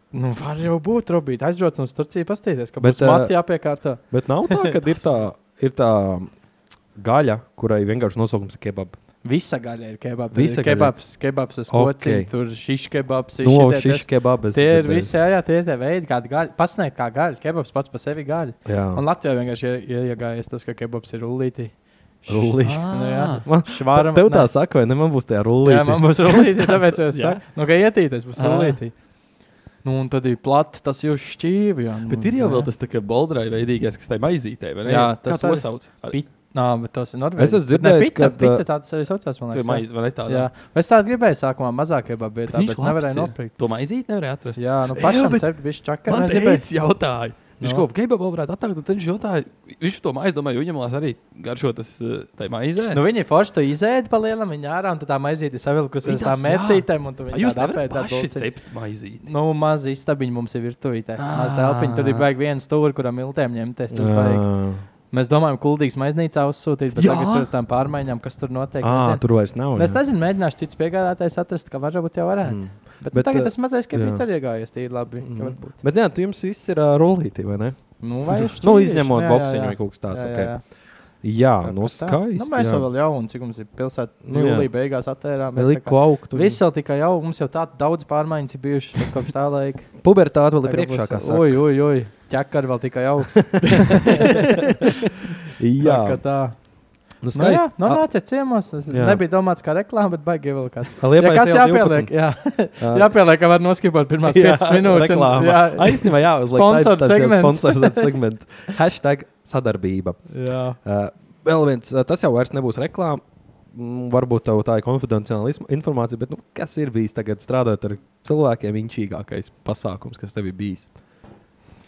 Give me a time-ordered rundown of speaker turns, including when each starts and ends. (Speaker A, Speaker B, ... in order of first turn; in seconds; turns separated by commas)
Speaker A: 0.1-4.8, Speaker B: 2.8-3.4, Speaker B: 4.1-6.3, Speaker B: 7.0-8.9, Speaker A: 9.2-24.5, Speaker B: 10.3-10.9, Speaker B: 11.7-12.3, Speaker B: 13.4-15.1, Speaker B: 18.7-19.0, Speaker B: 22.3-27.0, Speaker C: 22.6-23.4, Speaker A: 25.6-28.9, Speaker C: 27.1-27.4, Speaker C: 28.4-28.8, Speaker A: 29.8-32.7, Speaker C: 32.1-36.2, Speaker A: 34.9-43.5, Speaker B: 37.4-38.6, Speaker C: 39.5-40.5, Speaker C: 42.5-45.5, Speaker A: 44.6-46.6, Speaker C: 46.1-53.0, Speaker A: 47.6-47.9, Speaker A: 52.9-58.5, Speaker C: 56.0-59.2, Speaker A: 59.2-64.5, Speaker C: 61.2-62.3, Speaker B: 63.9-64.8, Speaker A: 65.1-75.8, Speaker C: 67.0-67.5, Speaker B: 68.8-70.0, Speaker B: 72.4-74.2, Speaker B: 75.2-77.8, Speaker A: 78.0-80.6, Speaker B: 78.3-80.5, Speaker B: 81.2-82.9, Speaker A: 81.6-90.0, Speaker B: 84.3-84.7, Speaker B: 85.5-86.6, Speaker B: 90.0-91.6, Speaker A: 90.6-95.2, Speaker B: 93.5-94.6, Speaker B: 95.6-96.2, Speaker A: 95.8-96.6, Speaker B: 97.2-98.1, Speaker A: 97.3-108.1, Speaker B: 98.9-99.2, Speaker B: 101.0-103.1, Speaker B: 104.2-110.2, Speaker A: 110.3-110.8, Speaker B: 110.8-120.9